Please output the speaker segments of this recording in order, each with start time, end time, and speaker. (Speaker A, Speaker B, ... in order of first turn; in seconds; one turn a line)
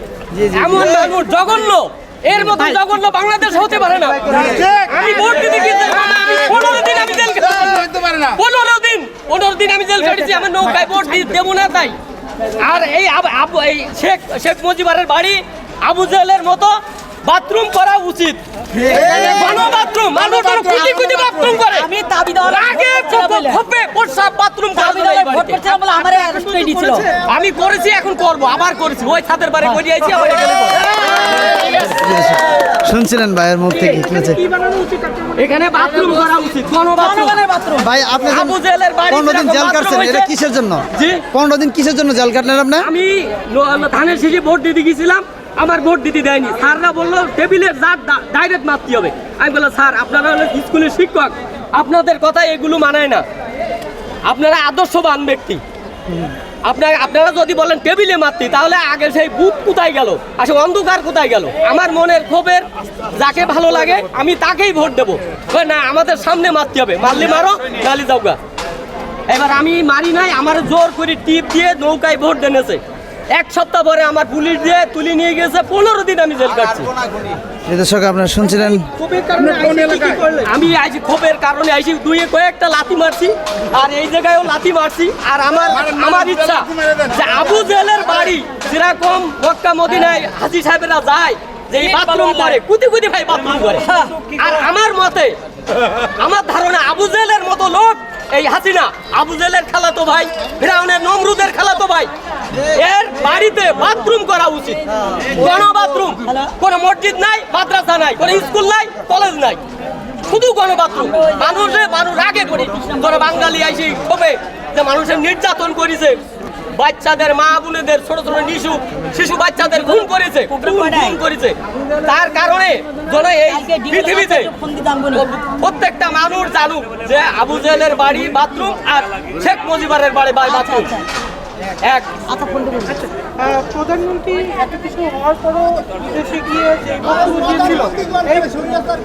Speaker A: 0.3-1.0
Speaker B: 0.5-12.0
Speaker B: 12.6-21.9
Speaker C: 20.7-23.6
Speaker B: 22.4-25.6
Speaker C: 24.8-27.2
Speaker B: 27.2-31.8
Speaker A: 31.8-34.4
Speaker B: 34.5-37.4
Speaker C: 37.0-37.9
Speaker A: 37.8-38.6
Speaker B: 38.2-40.3
Speaker A: 39.1-42.9
Speaker B: 40.9-41.2
Speaker B: 42.8-53.2
Speaker B: 54.3-55.6
Speaker B: 56.6-68.4
Speaker B: 69.3-77.3
Speaker A: 77.7-78.9
Speaker B: 79.0-95.4
Speaker C: 92.0-92.6
Speaker B: 96.0-109.6
Speaker B: 110.2-116.2
Speaker C: 111.1-111.9
Speaker C: 112.7-113.5
Speaker B: 116.8-124.5
Speaker C: 120.5-121.2
Speaker C: 123.4-125.3
Speaker B: 125.1-130.9
Speaker C: 130.4-131.1
Speaker B: 131.8-132.2
Speaker C: 132.3-133.1
Speaker D: 133.8-137.1
Speaker B: 137.0-137.9
Speaker D: 138.4-138.7